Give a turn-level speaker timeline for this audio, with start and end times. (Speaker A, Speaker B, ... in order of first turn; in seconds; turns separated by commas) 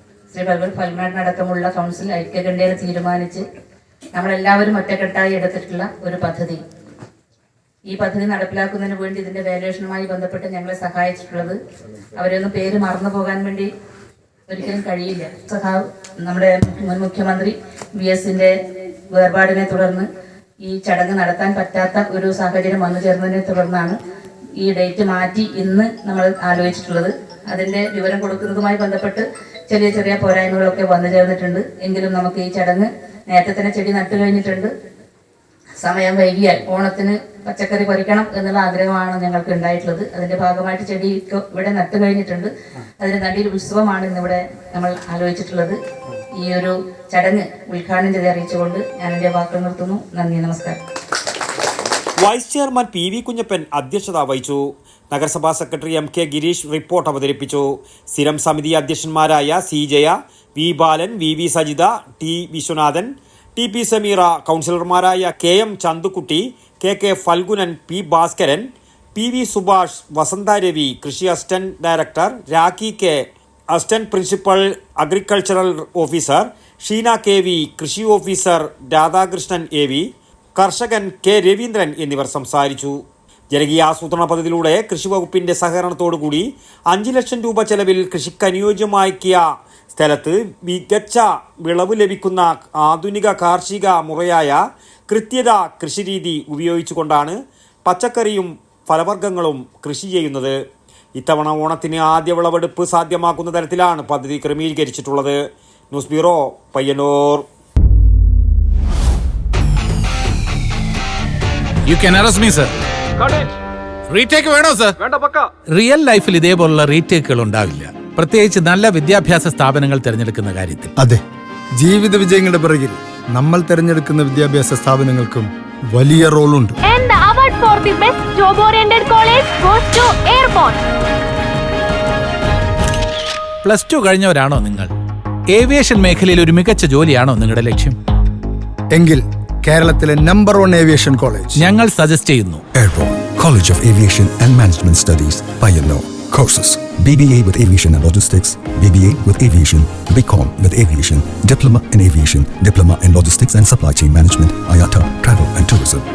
Speaker A: 0.3-3.4, Speaker A: 4.2-6.6, Speaker A: 7.9-11.6, Speaker A: 12.2-13.7, Speaker A: 14.5-18.5, Speaker A: 19.1-20.1, Speaker A: 20.6-24.0, Speaker A: 24.6-34.7, Speaker A: 35.8-45.8, Speaker A: 46.4-50.8, Speaker B: 52.2-83.0, Speaker B: 83.5-94.6, Speaker B: 95.1-100.6, Speaker B: 101.2-105.4, Speaker B: 105.9-107.5, Speaker C: 111.8-112.7, Speaker C: 114.1-115.0, Speaker B: 115.1-115.4, Speaker C: 115.7-120.9, Speaker D: 121.8-126.7, Speaker E: 126.8-130.8, Speaker C: 133.6-134.9, Speaker C: 135.5-138.0, Speaker D: 138.9-141.5, Speaker C: 141.6-142.6, Speaker F: 142.7-156.1